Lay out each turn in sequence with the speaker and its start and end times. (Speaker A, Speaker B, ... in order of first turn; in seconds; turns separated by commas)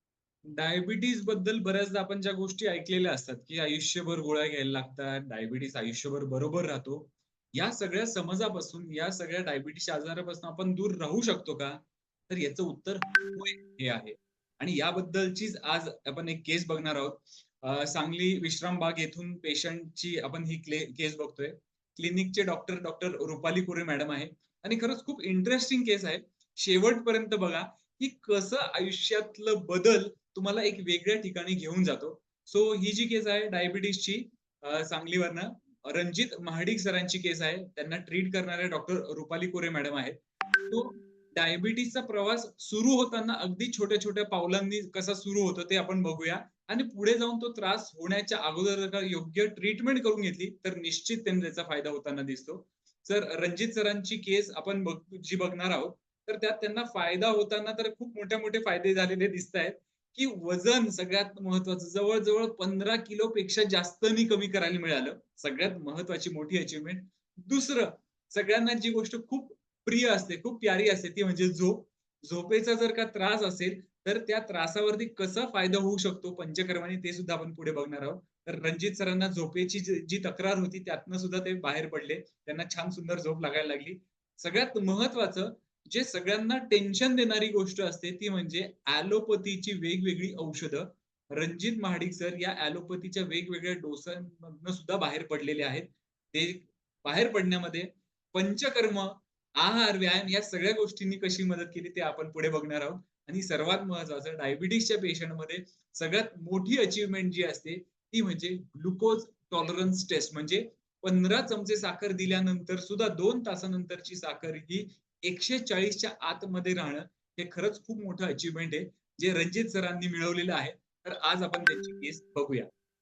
Speaker A: 0.5-122.7